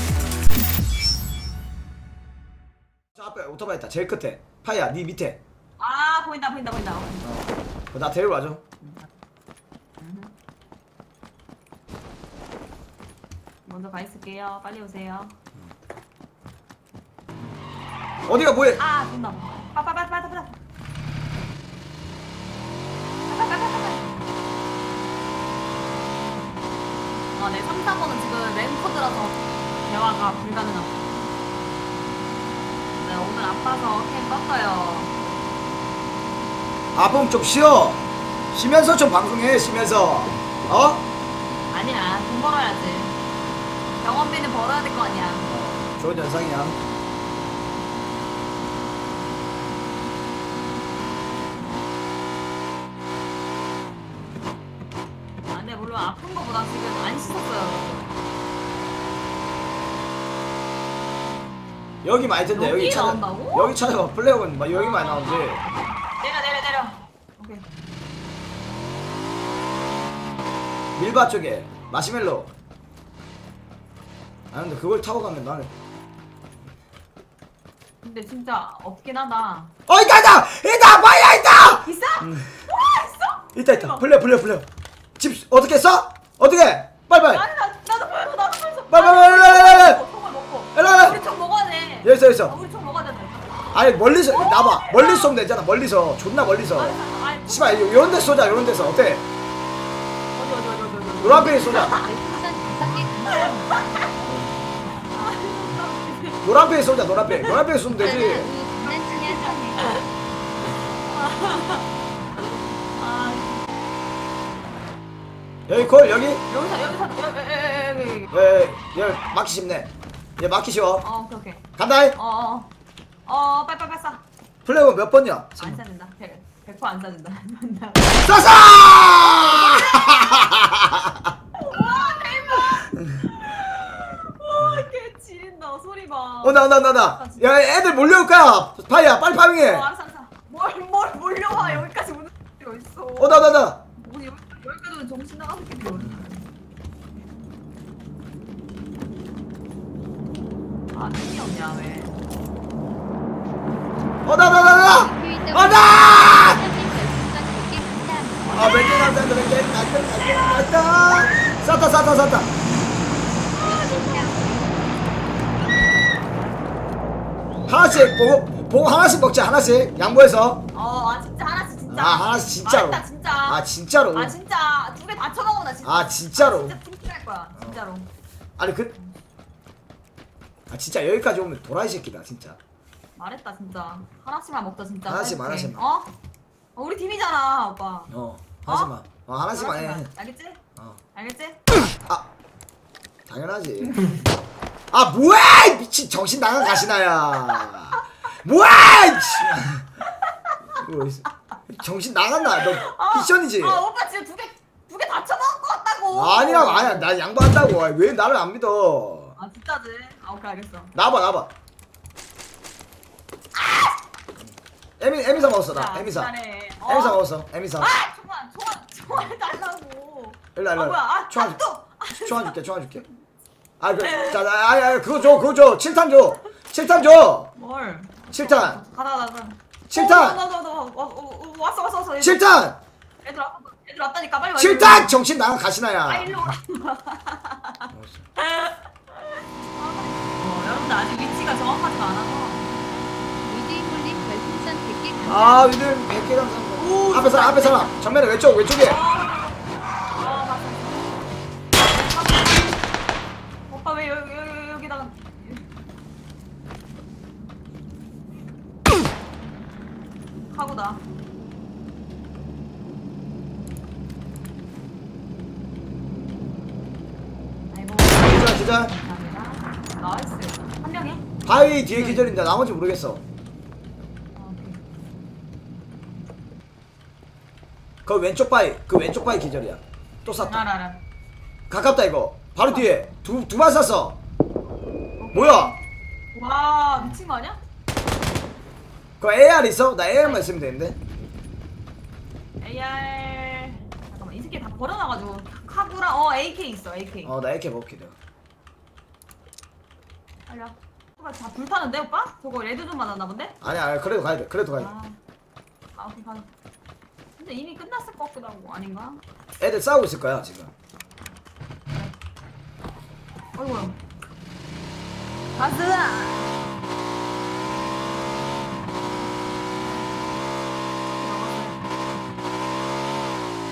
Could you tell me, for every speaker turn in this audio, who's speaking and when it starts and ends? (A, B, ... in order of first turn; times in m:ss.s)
0:03.2-0:05.4 A
0:05.8-0:07.3 B
0:07.2-0:08.6 A
0:08.8-0:09.1 B
0:10.0-0:10.4 B
0:13.7-0:15.4 B
0:18.3-0:18.8 A
0:18.8-0:20.6 B
0:23.3-0:24.1 B
0:27.4-0:31.0 B
0:33.0-0:35.2 B
0:37.0-0:41.0 A
0:41.7-0:43.2 B
0:44.0-0:45.5 B
0:45.5-0:46.8 A
0:55.5-0:58.2 B
1:02.0-1:05.6 A
1:02.5-1:03.7 B
1:04.7-1:07.7 B
1:11.0-1:12.5 A
1:14.5-1:15.7 A
1:18.0-1:19.7 B
1:19.9-1:22.6 A
1:21.6-1:24.1 B
1:23.6-1:24.7 A
1:25.2-1:27.4 A
1:27.3-1:33.7 B
1:28.9-1:30.0 A
1:30.8-1:31.2 A
1:32.0-1:32.6 A
1:33.7-1:39.3 A
1:34.3-1:35.4 B
1:36.8-1:39.1 B
1:40.4-1:42.1 B
1:41.2-1:42.0 A
1:41.3-1:44.1 C
1:43.7-1:44.1 B
1:44.2-1:44.6 A
1:45.1-1:46.4 B
1:46.4-1:48.5 A
1:47.3-1:47.6 B
1:47.9-1:50.0 C
1:48.8-1:50.1 B
1:50.6-1:51.9 B
1:52.5-1:53.7 B
1:55.7-1:56.4 A
1:56.5-1:58.3 B
1:58.3-2:01.0 A
2:01.0-2:02.7 B
2:01.8-2:02.2 A
2:03.3-2:04.3 B
2:04.7-2:05.8 A
2:05.6-2:08.3 B
2:08.2-2:11.3 A
2:09.5-2:10.2 B
2:11.6-2:17.5 B
2:14.6-2:14.9 A
2:16.4-2:19.9 A
2:19.6-2:26.5 B
2:21.6-2:21.9 A
2:23.2-2:23.8 A
2:26.0-2:26.3 A
2:30.9-2:32.2 B
2:34.2-2:36.6 A
2:34.8-2:38.6 C
2:38.4-2:38.9 B
2:38.5-2:42.5 A
2:43.5-2:44.5 B
2:43.5-2:44.7 C
2:47.7-2:50.6 A
2:50.7-2:53.6 B
2:51.9-2:54.4 A
2:54.1-2:58.1 B
2:55.8-2:56.8 A
2:57.6-2:57.8 A
2:58.6-2:59.0 A
3:00.7-3:02.6 A
3:03.2-3:06.1 B
3:05.1-3:05.8 A
3:06.8-3:08.1 B
3:08.1-3:10.1 A
3:08.7-3:08.9 B
3:09.5-3:10.6 B
3:11.1-3:11.6 B
3:13.3-3:14.1 A
3:13.9-3:14.2 B
3:14.9-3:19.9 A
3:19.2-3:19.5 B
3:20.1-3:20.6 B
3:20.8-3:23.8 A
3:22.4-3:27.1 B
3:26.1-3:29.4 A
3:29.4-3:31.0 B
3:31.0-3:31.5 A
3:33.6-3:33.9 B
3:34.4-3:36.3 A
3:35.6-3:37.2 B
3:36.8-3:38.0 A
3:37.8-3:42.6 B
3:40.6-3:41.6 A
3:42.2-3:43.0 A
3:43.8-3:47.5 A
3:44.0-3:44.4 B
3:45.7-3:46.2 B
3:47.6-3:52.6 B
3:48.3-3:48.8 A
3:49.9-3:50.4 A
3:52.2-3:52.8 A
3:53.2-3:55.2 B
3:54.6-3:56.6 A
3:56.1-4:02.7 B
3:57.9-3:58.2 A
4:03.4-4:05.6 C
4:05.3-4:09.0 A
4:06.8-4:08.0 B
4:08.8-4:12.8 B
4:13.7-4:15.7 B
4:20.5-4:21.0 B
4:27.7-4:31.2 B
4:28.2-4:29.0 A
4:31.5-4:33.2 A
4:31.9-4:32.3 B
4:34.4-4:34.8 B
4:38.1-4:40.6 A
4:40.4-4:41.0 B
4:41.7-4:44.2 A
4:42.7-4:43.2 B
4:45.2-4:45.8 B
4:45.3-4:45.8 A
4:46.3-4:47.6 B
4:49.2-4:51.0 A
4:50.1-4:50.5 B
4:52.6-4:57.3 B
4:57.2-4:58.2 A
5:00.5-5:03.6 B
5:03.6-5:04.9 A
5:04.8-5:05.2 B
5:06.0-5:06.5 B
5:07.4-5:09.2 B
5:09.6-5:10.7 A
5:13.6-5:14.0 B
5:15.6-5:16.5 B
5:21.0-5:21.9 B